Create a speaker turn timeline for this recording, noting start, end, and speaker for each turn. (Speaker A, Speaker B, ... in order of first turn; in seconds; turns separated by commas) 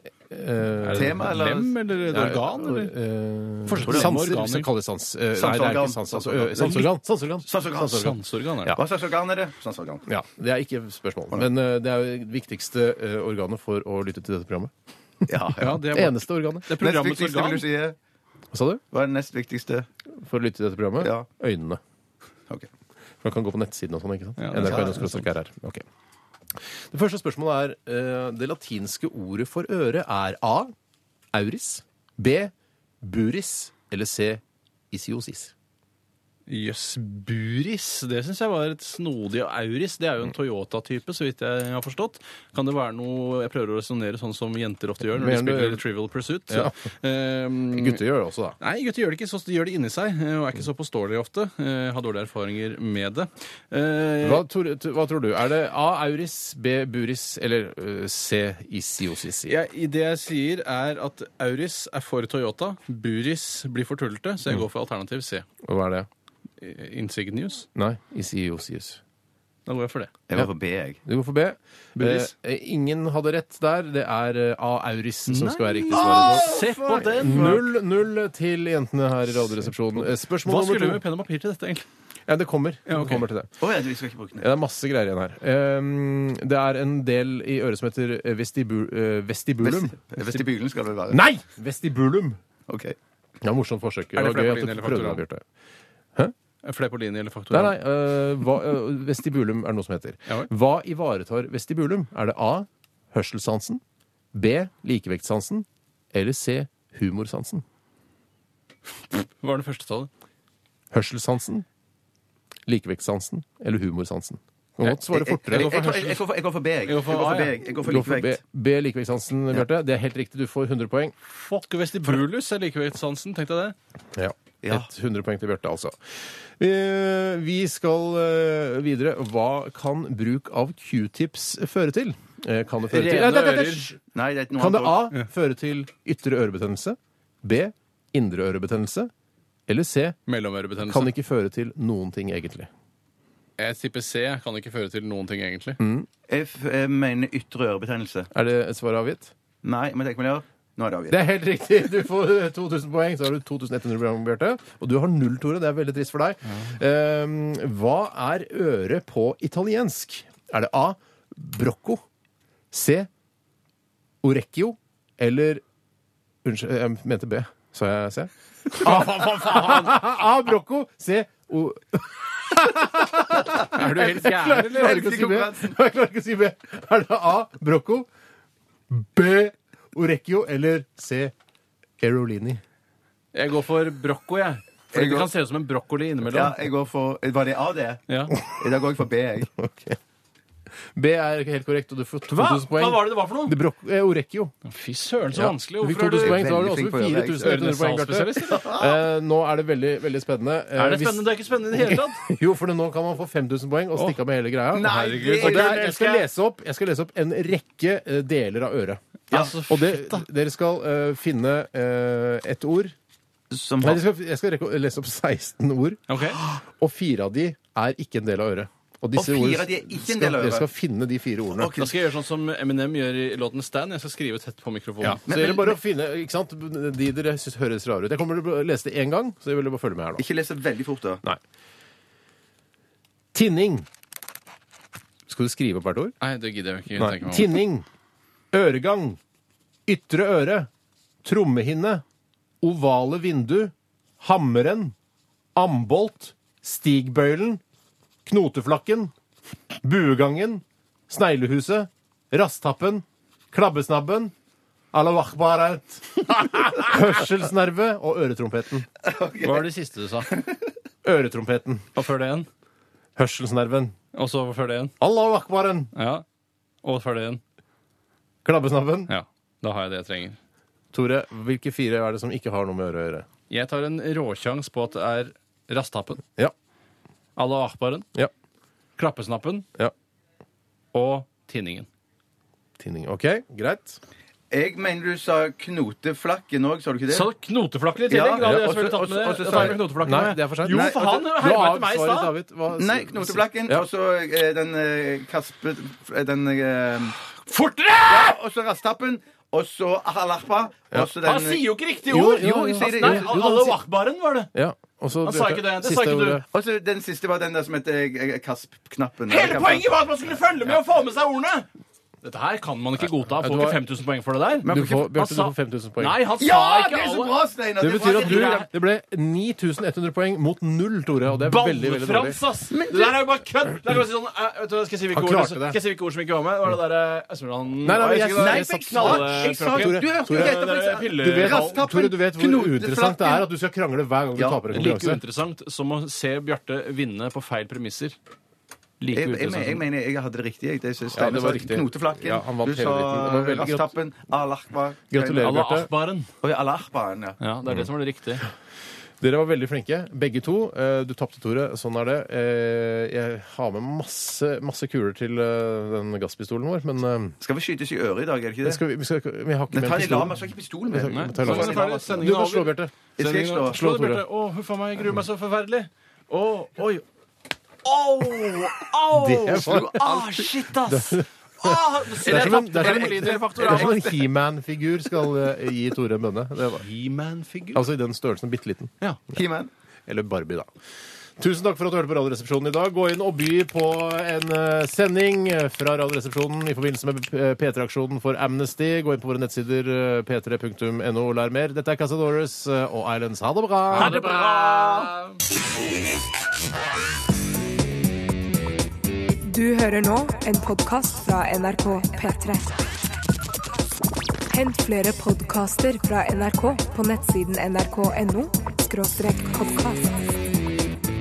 Speaker A: 0.3-1.3, Speaker B: 0.8-2.9, Speaker C: 0.9-2.4, Speaker A: 2.1-8.8, Speaker B: 3.7-4.7, Speaker C: 3.8-4.1, Speaker C: 5.3-6.9, Speaker B: 6.6-6.9, Speaker C: 7.5-8.2, Speaker B: 7.8-8.8, Speaker C: 8.7-10.1, Speaker A: 10.1-14.7, Speaker C: 15.3-15.9, Speaker B: 15.6-17.6, Speaker A: 15.8-16.7, Speaker C: 16.8-18.0, Speaker A: 18.5-18.8, Speaker C: 18.9-19.9, Speaker A: 20.2-21.8, Speaker C: 21.0-21.3, Speaker A: 23.2-25.8, Speaker B: 24.4-25.3, Speaker C: 24.6-24.9, Speaker A: 26.6-30.7, Speaker A: 31.3-35.5, Speaker B: 36.5-48.0, Speaker A: 45.1-45.8, Speaker A: 47.7-48.6, Speaker B: 48.6-54.4, Speaker A: 54.2-59.5, Speaker B: 59.5-65.5, Speaker A: 65.6-66.1, Speaker B: 66.6-67.7, Speaker A: 67.8-69.0, Speaker B: 69.7-70.1, Speaker C: 70.3-71.0, Speaker A: 71.0-81.0, Speaker B: 72.0-72.3, Speaker B: 75.3-77.6, Speaker C: 75.9-77.6, Speaker B: 80.0-81.9, Speaker A: 82.3-83.5, Speaker B: 82.9-83.2, Speaker C: 83.6-84.5, Speaker A: 84.4-90.4, Speaker C: 89.6-91.2, Speaker A: 91.1-92.4, Speaker C: 92.7-93.0, Speaker A: 93.4-95.4, Speaker B: 94.2-95.2, Speaker B: 96.6-97.8, Speaker A: 97.5-103.8, Speaker A: 104.3-107.6, Speaker B: 109.2-110.1, Speaker A: 110.9-111.7, Speaker A: 112.7-116.2, Speaker C: 114.9-118.4, Speaker B: 116.8-117.6, Speaker A: 117.8-121.1, Speaker B: 121.3-123.8, Speaker A: 124.1-126.0, Speaker A: 126.6-134.0, Speaker B: 132.9-133.9, Speaker C: 134.1-135.1, Speaker A: 134.6-139.1, Speaker A: 139.7-140.2, Speaker B: 140.3-141.1, Speaker A: 140.8-142.7, Speaker B: 143.6-145.8, Speaker A: 145.8-146.1, Speaker C: 146.3-148.3, Speaker A: 148.3-149.3, Speaker C: 149.6-151.2, Speaker A: 151.1-162.0, Speaker A: 162.7-163.1, Speaker A: 164.2-165.6, Speaker A: 166.4-178.1, Speaker B: 168.8-169.9, Speaker B: 173.7-175.4, Speaker C: 174.7-175.8, Speaker A: 178.9-181.3, Speaker A: 182.0-182.6, Speaker B: 183.3-186.6, Speaker C: 184.9-185.3, Speaker C: 186.3-189.5, Speaker B: 188.1-188.4, Speaker A: 189.5-190.0, Speaker A: 190.9-194.5, Speaker B: 192.3-193.6, Speaker B: 194.7-196.4, Speaker A: 195.3-209.0, Speaker C: 196.2-197.6, Speaker B: 197.4-198.7, Speaker C: 198.5-199.0, Speaker B: 200.8-202.2, Speaker C: 204.7-205.9, Speaker B: 204.8-206.3, Speaker C: 209.3-209.6, Speaker B: 209.3-210.2, Speaker A: 209.7-212.9, Speaker C: 213.5-214.0, Speaker A: 213.8-221.7, Speaker B: 216.1-216.4, Speaker C: 219.2-220.7, Speaker C: 221.6-221.9, Speaker B: 221.7-225.2, Speaker A: 225.0-230.2, Speaker C: 225.3-225.8, Speaker C: 230.2-231.2, Speaker A: 233.3-233.9, Speaker A: 235.3-236.2, Speaker B: 236.2-237.6, Speaker A: 237.0-237.8, Speaker A: 238.5-239.2, Speaker A: 239.9-240.7, Speaker A: 241.2-242.0, Speaker A: 242.6-244.9, Speaker A: 245.6-247.6, Speaker A: 248.3-249.1, Speaker A: 249.8-254.3, Speaker A: 254.9-258.9, Speaker C: 259.0-259.7, Speaker B: 259.4-260.4, Speaker C: 260.3-260.7, Speaker A: 261.0-261.9, Speaker B: 261.9-262.5, Speaker A: 263.2-263.9, Speaker B: 264.1-264.9, Speaker A: 265.0-265.9, Speaker B: 265.9-266.2, Speaker B: 266.8-267.4, Speaker A: 268.4-269.1, Speaker B: 269.1-270.4, Speaker A: 270.9-273.3, Speaker B: 273.5-276.2, Speaker B: 277.4-278.1, Speaker B: 279.0-279.7, Speaker B: 280.9-281.9, Speaker A: 282.8-284.0, Speaker C: 284.5-287.3, Speaker B: 287.1-292.3, Speaker C: 288.1-289.8, Speaker A: 288.4-288.6, Speaker A: 289.5-293.8, Speaker C: 290.7-291.3, Speaker C: 292.8-297.2, Speaker B: 297.3-298.4, Speaker C: 298.1-303.7, Speaker B: 301.2-304.5, Speaker A: 302.1-303.8, Speaker A: 304.5-306.4, Speaker B: 305.2-306.4, Speaker C: 306.5-309.9, Speaker B: 309.3-311.7, Speaker B: 312.2-317.3, Speaker A: 313.3-313.8, Speaker C: 314.6-315.1, Speaker A: 314.7-316.2, Speaker C: 316.4-318.7, Speaker A: 317.8-322.4, Speaker B: 318.0-318.7, Speaker B: 321.5-331.8, Speaker C: 322.7-323.2, Speaker A: 325.1-325.8, Speaker A: 327.8-335.2, Speaker C: 328.4-333.5, Speaker B: 334.7-338.2, Speaker B: 339.0-339.9, Speaker C: 339.1-345.5, Speaker A: 341.1-343.9, Speaker A: 345.1-345.9, Speaker B: 345.4-346.3, Speaker C: 346.4-347.4, Speaker B: 347.4-348.5, Speaker A: 349.2-357.4, Speaker C: 357.4-358.8, Speaker A: 358.6-362.9, Speaker C: 359.7-362.4, Speaker B: 361.1-367.1, Speaker C: 363.2-363.8, Speaker A: 363.6-364.2, Speaker B: 367.8-374.0, Speaker A: 369.1-370.1, Speaker C: 369.5-370.5, Speaker A: 370.9-376.8, Speaker C: 372.2-374.2, Speaker B: 376.8-377.8, Speaker A: 377.7-378.9, Speaker C: 379.3-379.7, Speaker A: 380.1-380.7, Speaker A: 381.4-394.2, Speaker B: 393.9-395.4, Speaker C: 394.0-394.9, Speaker D: 399.4-402.7, Speaker D: 404.5-410.2